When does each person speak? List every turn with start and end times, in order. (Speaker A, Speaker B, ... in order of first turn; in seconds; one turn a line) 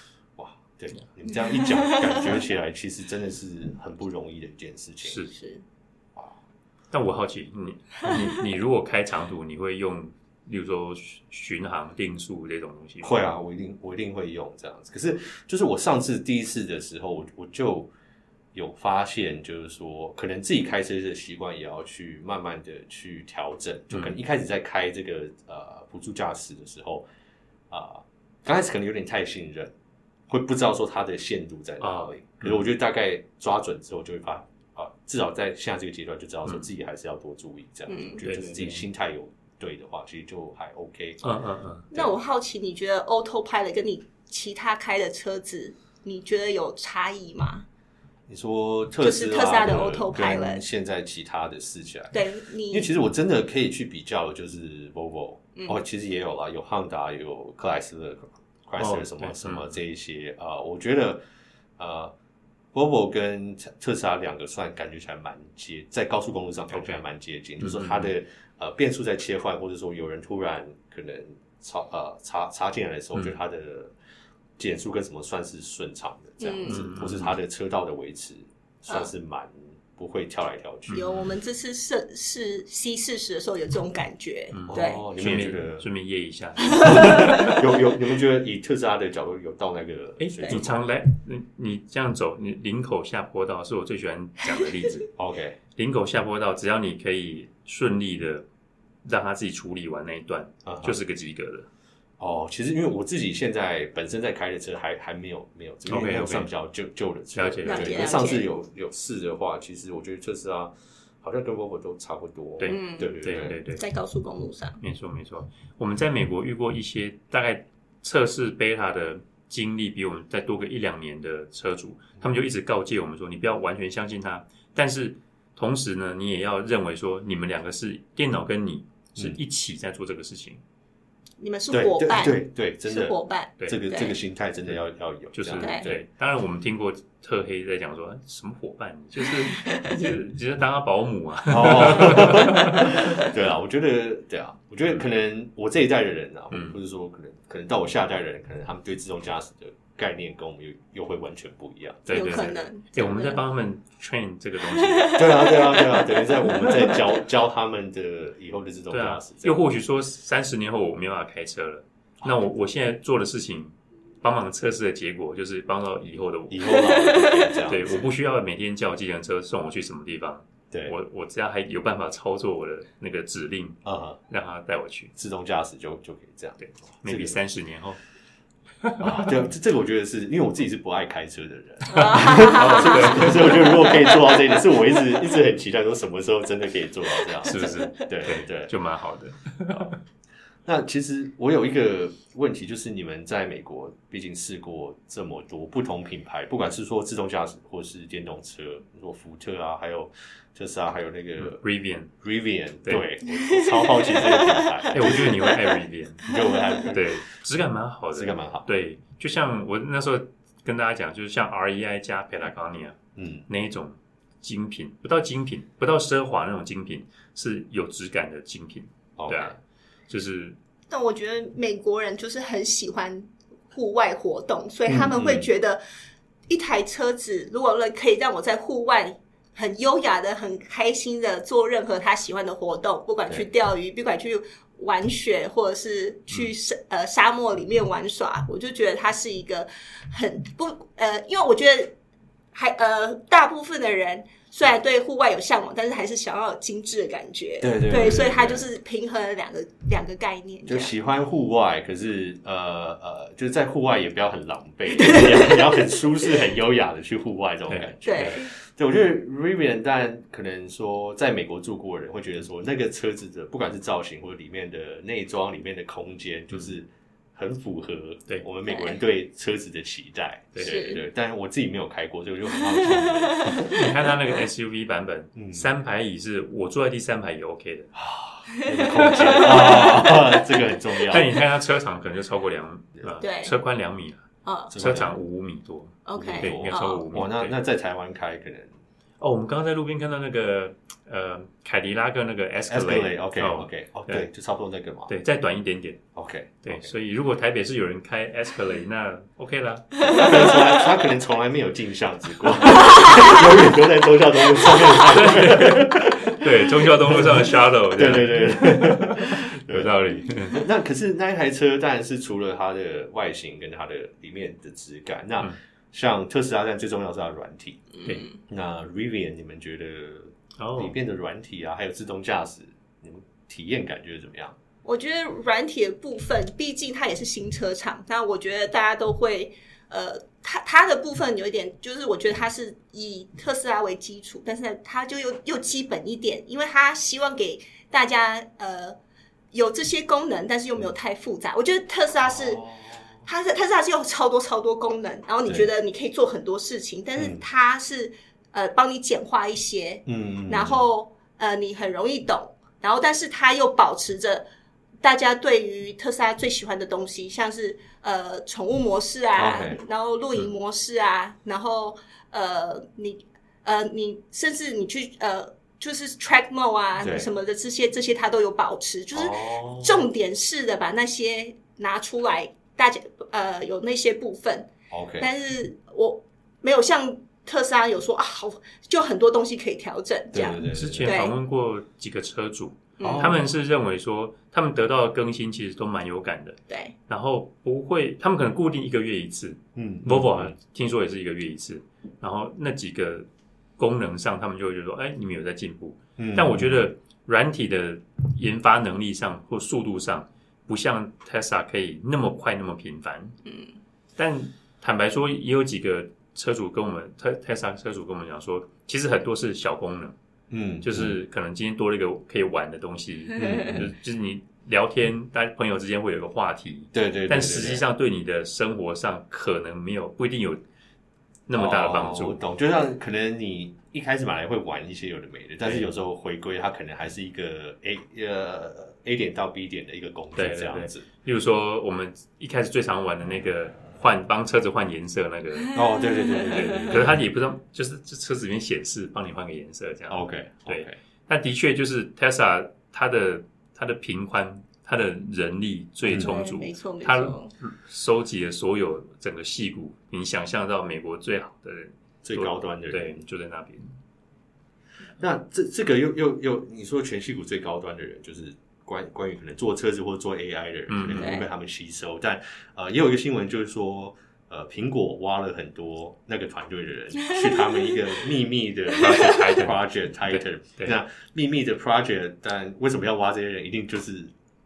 Speaker A: 0.4-5.2
Speaker B: 1.5-2.3
Speaker C: 5.0-5.3
Speaker B: 5.3-5.6
Speaker C: 6.9-13.3
Speaker A: 13.0-17.9
Speaker A: 18.5-27.1
Speaker A: 27.7-29.7
Speaker A: 30.3-41.4
Speaker C: 31.8-32.6
Speaker B: 37.9-38.2
Speaker C: 38.2-38.9
Speaker C: 41.2-41.9
Speaker B: 41.9-47.6
Speaker A: 48.3-61.2
Speaker B: 49.0-50.6
Speaker B: 52.1-52.9
Speaker C: 58.8-59.8
Speaker A: 61.8-62.1
Speaker A: 62.7-73.9
Speaker C: 66.7-67.0
Speaker C: 67.6-68.1
Speaker A: 74.6-81.0
Speaker B: 76.4-76.8
Speaker C: 76.7-77.4
Speaker C: 80.9-81.3
Speaker B: 80.9-85.0
Speaker C: 84.5-87.6
Speaker A: 84.7-85.9
Speaker B: 86.7-87.5
Speaker A: 86.8-90.8
Speaker C: 90.2-95.1
Speaker A: 95.2-95.6
Speaker C: 95.8-98.5
Speaker C: 99.0-101.7
Speaker A: 100.7-101.0
Speaker A: 102.2-113.6
Speaker C: 105.9-106.5
Speaker C: 107.3-108.1
Speaker B: 107.6-108.5
Speaker C: 112.6-113.8
Speaker B: 112.6-113.1
Speaker B: 113.7-114.8
Speaker C: 114.8-130.6
Speaker B: 131.4-134.2
Speaker A: 131.7-136.0
Speaker C: 135.3-142.9
Speaker B: 135.6-135.9
Speaker B: 139.2-139.9
Speaker A: 141.5-152.6
Speaker C: 146.5-146.8
Speaker C: 152.1-155.3
Speaker B: 152.1-153.4
Speaker B: 154.7-157.0
Speaker A: 155.2-159.6
Speaker C: 158.9-175.1
Speaker A: 166.5-168.0
Speaker B: 166.7-167.6
Speaker A: 173.8-174.2
Speaker A: 175.2-177.4
Speaker C: 176.6-178.0
Speaker C: 178.8-179.3
Speaker A: 179.0-188.7
Speaker B: 181.9-183.3
Speaker C: 181.9-183.8
Speaker C: 187.5-190.0
Speaker B: 187.5-187.9
Speaker A: 189.7-189.9
Speaker A: 190.7-201.6
Speaker C: 201.4-202.1
Speaker A: 202.2-205.5
Speaker B: 203.5-205.8
Speaker C: 204.9-206.4
Speaker A: 206.2-207.1
Speaker B: 206.3-206.8
Speaker C: 206.9-213.0
Speaker A: 208.1-208.7
Speaker A: 213.2-213.5
Speaker C: 213.5-219.6
Speaker A: 219.2-219.6
Speaker C: 220.1-220.6
Speaker B: 220.9-225.8
Speaker A: 224.9-225.5
Speaker B: 226.5-241.9
Speaker B: 242.5-250.9
Speaker A: 247.6-248.7
Speaker A: 250.7-273.8
Speaker B: 254.9-255.8
Speaker C: 257.7-258.4
Speaker B: 258.0-258.5
Speaker B: 268.7-269.0
Speaker C: 270.5-270.9
Speaker B: 270.6-271.0
Speaker B: 272.7-274.4
Speaker C: 273.6-277.9
Speaker A: 275.4-275.7
Speaker A: 277.9-281.3
Speaker B: 278.6-280.4
Speaker C: 279.1-280.0
Speaker C: 281.1-287.5
Speaker B: 283.2-283.5
Speaker B: 284.4-284.7
Speaker A: 284.7-285.1
Speaker B: 286.1-287.1
Speaker A: 286.1-288.7
Speaker C: 289.2-294.3
Speaker A: 292.7-295.1
Speaker C: 295.1-296.0
Speaker A: 296.1-296.9
Speaker C: 296.6-300.6
Speaker A: 300.0-324.6
Speaker B: 300.1-300.4
Speaker B: 303.0-303.3
Speaker C: 304.9-310.6
Speaker B: 318.0-318.4
Speaker C: 320.6-321.0
Speaker B: 324.8-339.0
Speaker B: 339.5-342.6
Speaker A: 342.2-343.1
Speaker B: 343.2-354.4
Speaker A: 347.2-347.4
Speaker A: 350.1-350.9
Speaker B: 355.0-381.4
Speaker A: 359.4-359.8
Speaker A: 367.0-367.3
Speaker A: 369.1-370.0
Speaker A: 374.9-375.3
Speaker A: 380.3-381.1
Speaker C: 380.7-393.3
Speaker B: 383.0-383.4
Speaker A: 383.0-383.4
Speaker B: 386.7-386.9
Speaker A: 389.8-390.5
Speaker C: 393.8-403.4
Speaker A: 396.2-396.7
Speaker B: 403.5-403.7
Speaker C: 404.2-410.1
Speaker A: 410.5-411.1
Speaker C: 410.8-420.6
Speaker A: 413.4-413.9
Speaker A: 416.9-417.8
Speaker C: 421.5-422.4
Speaker A: 421.5-431.1
Speaker C: 425.6-425.9
Speaker C: 430.4-453.9
Speaker A: 435.7-437.2
Speaker B: 436.4-437.0
Speaker A: 440.1-440.9
Speaker B: 446.1-447.5
Speaker A: 452.2-453.2
Speaker A: 455.2-474.3
Speaker C: 460.9-461.4
Speaker B: 461.1-461.5
Speaker C: 469.0-471.0